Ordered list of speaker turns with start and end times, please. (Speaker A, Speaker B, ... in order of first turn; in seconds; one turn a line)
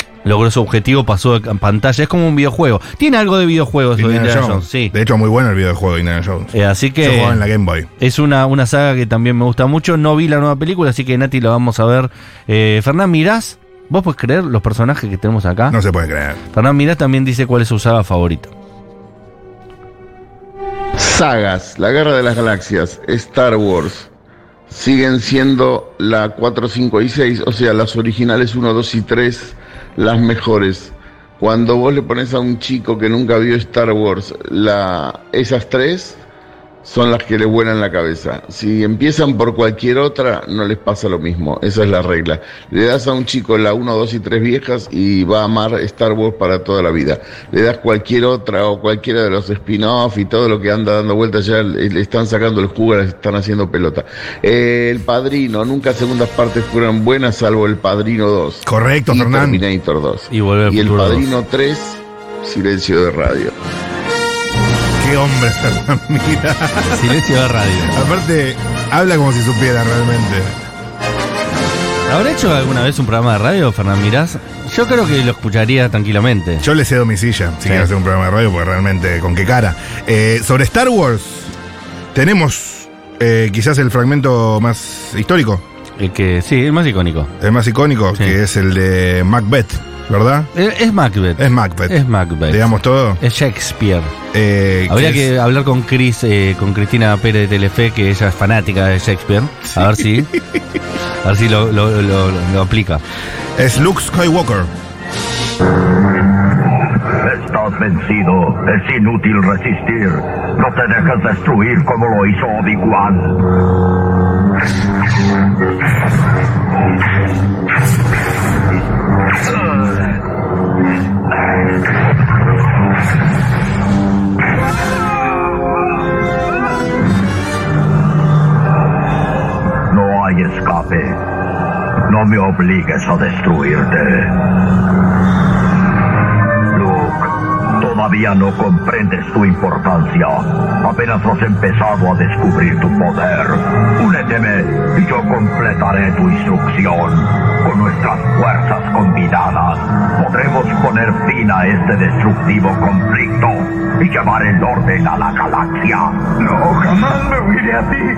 Speaker A: 0.2-4.9
Speaker B: 4.0-7.9
Speaker A: 6.5-7.5
Speaker A: 8.0-15.8
Speaker B: 15.7-16.4
Speaker A: 16.5-18.5
Speaker C: 21.0-24.1
Speaker C: 24.7-36.2
Speaker C: 36.8-63.5
Speaker B: 58.7-59.6
Speaker A: 60.3-61.3
Speaker B: 65.0-67.1
Speaker A: 66.9-67.9
Speaker B: 67.9-70.5
Speaker A: 72.1-76.6
Speaker B: 76.6-81.5
Speaker B: 82.1-85.6
Speaker A: 86.0-87.3
Speaker B: 87.4-90.5
Speaker A: 90.5-94.1
Speaker B: 91.4-93.2
Speaker B: 94.3-95.3
Speaker A: 94.9-100.3
Speaker A: 101.2-103.0
Speaker B: 103.6-104.7
Speaker D: 107.1-113.5
Speaker D: 129.9-131.2
Speaker D: 132.1-134.4
Speaker D: 136.7-156.5